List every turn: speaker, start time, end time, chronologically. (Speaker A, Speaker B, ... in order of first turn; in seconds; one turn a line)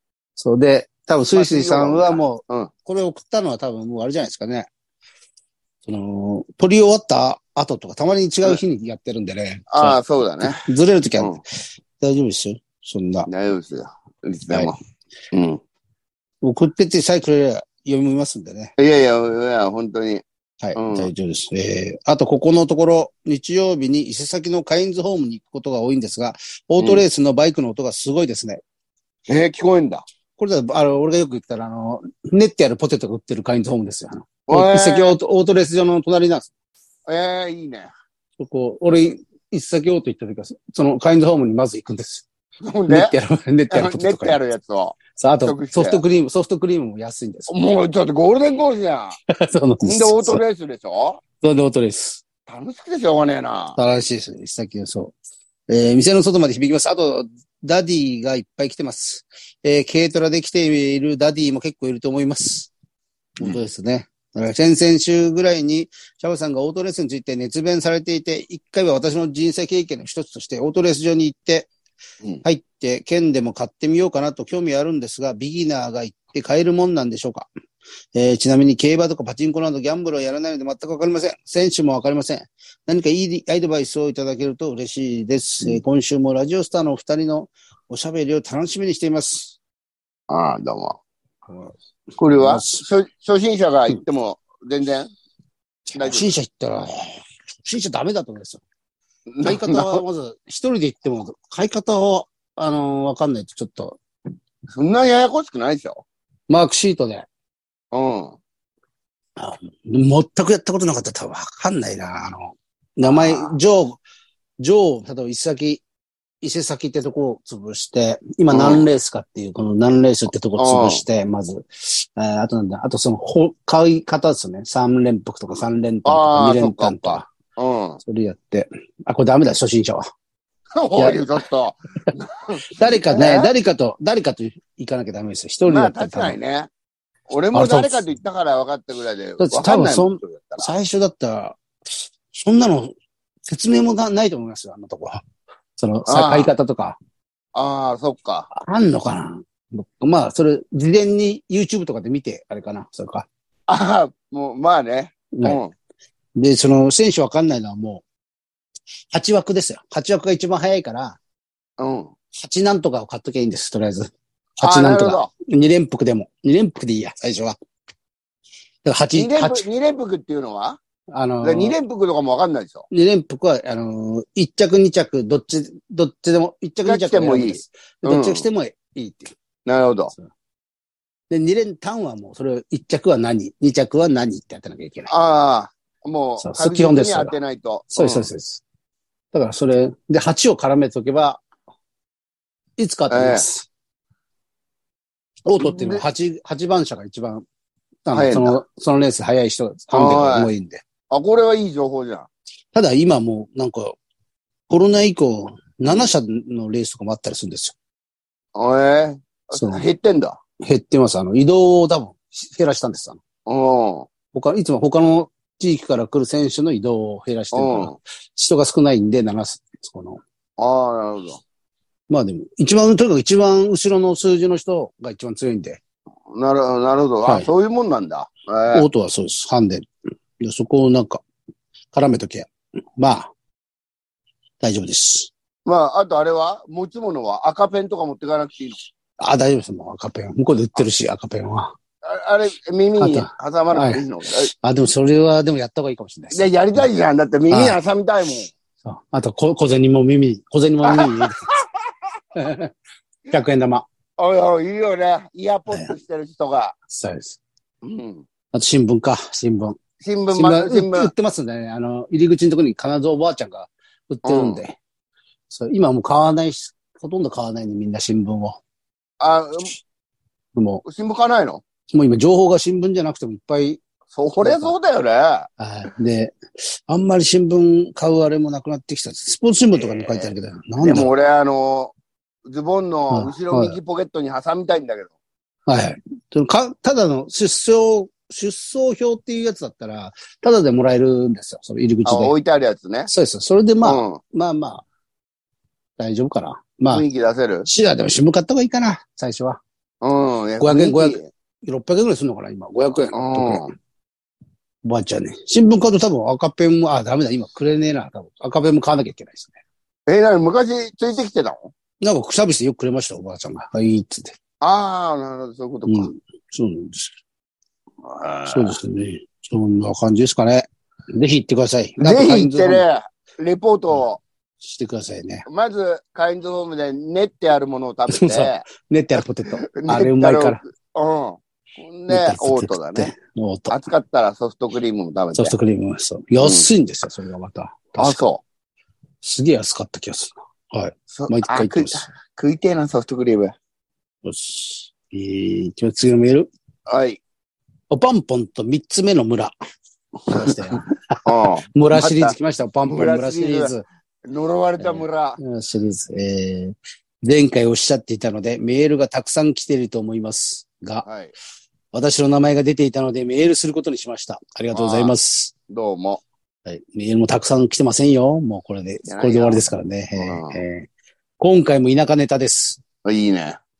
Speaker A: 0.4-4.7
Speaker B: 1.3-2.7
Speaker A: 5.8-11.4
Speaker B: 9.7-10.6
Speaker A: 12.0-13.3
Speaker B: 13.3-14.7
Speaker B: 15.3-15.6
Speaker A: 16.4-18.7
Speaker B: 18.8-20.2
Speaker A: 20.6-28.6
Speaker B: 20.8-21.1
Speaker B: 26.8-27.0
Speaker B: 29.3-30.0
Speaker A: 30.4-36.5
Speaker B: 34.5-35.2
Speaker B: 37.1-37.9
Speaker A: 38.4-42.3
Speaker B: 42.6-43.1
Speaker A: 42.9-44.4
Speaker B: 43.7-46.0
Speaker A: 45.1-47.5
Speaker B: 47.5-49.2
Speaker A: 49.3-50.4
Speaker B: 49.8-51.2
Speaker A: 51.4-52.2
Speaker B: 52.5-53.8
Speaker A: 53.8-55.1
Speaker A: 55.7-62.7
Speaker A: 63.4-71.7
Speaker A: 72.4-77.5
Speaker A: 78.1-89.6
Speaker B: 90.3-91.0
Speaker B: 92.2-95.1
Speaker A: 92.3-92.8
Speaker A: 95.9-98.6
Speaker B: 96.0-96.3
Speaker B: 99.3-100.0
Speaker A: 99.4-104.0
Speaker B: 104.7-106.0
Speaker A: 106.5-107.3
Speaker B: 107.9-108.4
Speaker A: 109.4-114.0
Speaker B: 113.0-113.5
Speaker A: 114.6-115.8
Speaker A: 116.4-127.3
Speaker B: 118.5-118.8
Speaker B: 120.6-121.0
Speaker B: 126.0-128.0
Speaker A: 128.0-130.1
Speaker B: 130.8-133.5
Speaker A: 131.0-131.2
Speaker A: 132.7-136.4
Speaker B: 135.6-136.7
Speaker B: 137.3-140.7
Speaker A: 137.5-138.1
Speaker A: 139.4-145.2
Speaker A: 145.8-147.0
Speaker B: 146.1-146.5
Speaker B: 147.6-148.5
Speaker A: 148.5-153.3
Speaker B: 153.7-155.7
Speaker A: 155.3-155.6
Speaker A: 156.4-158.0
Speaker A: 159.1-161.2
Speaker B: 161.8-162.1
Speaker A: 162.3-167.6
Speaker B: 164.6-165.3
Speaker A: 168.8-169.7
Speaker B: 169.1-170.8
Speaker A: 171.1-171.8
Speaker B: 171.4-172.9
Speaker A: 172.9-179.3
Speaker B: 176.8-178.5
Speaker B: 179.7-180.1
Speaker A: 181.3-185.1
Speaker B: 185.1-188.3
Speaker A: 186.4-187.4
Speaker A: 187.9-188.6
Speaker A: 189.3-191.4
Speaker A: 192.8-193.7
Speaker B: 193.1-193.5
Speaker A: 195.5-197.4
Speaker B: 195.6-196.0
Speaker A: 198.1-200.8
Speaker B: 198.1-198.6
Speaker B: 199.9-200.5
Speaker B: 201.1-202.3
Speaker A: 202.7-204.0
Speaker A: 204.7-207.8
Speaker B: 208.6-210.4
Speaker A: 209.5-209.8
Speaker A: 210.6-213.2
Speaker B: 213.5-214.1
Speaker A: 214.3-220.2
Speaker B: 217.5-217.9
Speaker B: 220.6-221.4
Speaker A: 222.1-225.8
Speaker B: 226.3-228.9
Speaker A: 228.7-229.9
Speaker A: 230.4-231.2
Speaker A: 231.9-233.3
Speaker A: 234.6-235.3
Speaker B: 235.7-238.8
Speaker A: 239.2-241.7
Speaker B: 242.0-244.5
Speaker A: 243.0-246.9
Speaker B: 246.3-248.5
Speaker A: 247.5-247.8
Speaker A: 248.8-251.4
Speaker B: 250.8-251.9
Speaker A: 252.3-252.7
Speaker A: 253.3-253.9
Speaker B: 254.2-256.8
Speaker A: 255.7-255.9
Speaker A: 256.9-257.4
Speaker B: 257.8-258.3
Speaker A: 258.5-259.8
Speaker B: 260.0-261.1
Speaker A: 260.3-264.8
Speaker B: 264.2-264.6
Speaker A: 265.5-268.6
Speaker B: 269.2-269.8
Speaker A: 270.6-270.8
Speaker B: 270.9-271.6
Speaker A: 271.9-273.8
Speaker B: 274.1-275.5
Speaker A: 274.4-274.8
Speaker A: 275.6-281.1
Speaker B: 279.8-281.9
Speaker B: 282.5-285.1
Speaker A: 283.1-283.8
Speaker A: 285.7-292.3
Speaker B: 292.1-293.1
Speaker A: 293.1-294.8
Speaker B: 293.8-294.2
Speaker A: 296.0-297.1
Speaker B: 296.9-297.7
Speaker A: 297.7-299.6
Speaker B: 300.0-301.3
Speaker A: 300.6-303.6
Speaker B: 303.1-303.7
Speaker A: 304.8-309.5
Speaker B: 310.1-311.7
Speaker A: 312.0-314.4
Speaker B: 314.6-316.1
Speaker A: 315.9-317.1
Speaker B: 318.0-318.8
Speaker A: 318.5-322.8
Speaker B: 322.0-324.2
Speaker A: 324.6-325.5
Speaker B: 325.5-328.6
Speaker A: 328.1-330.6
Speaker B: 329.8-333.1
Speaker A: 332.1-333.8
Speaker B: 333.7-335.6
Speaker A: 335.4-338.2
Speaker B: 336.4-336.7
Speaker B: 338.0-338.4
Speaker A: 339.2-342.1
Speaker B: 341.1-343.5
Speaker A: 344.2-346.5
Speaker B: 346.9-347.2
Speaker A: 347.9-349.5
Speaker A: 350.2-353.8
Speaker B: 350.3-352.4
Speaker B: 352.9-353.7
Speaker B: 354.2-355.4
Speaker A: 354.8-361.1
Speaker B: 361.1-361.3
Speaker A: 361.9-365.5
Speaker B: 364.7-365.1
Speaker B: 365.7-366.2
Speaker A: 366.7-372.8
Speaker B: 369.1-369.7
Speaker B: 370.2-370.6
Speaker B: 373.0-373.6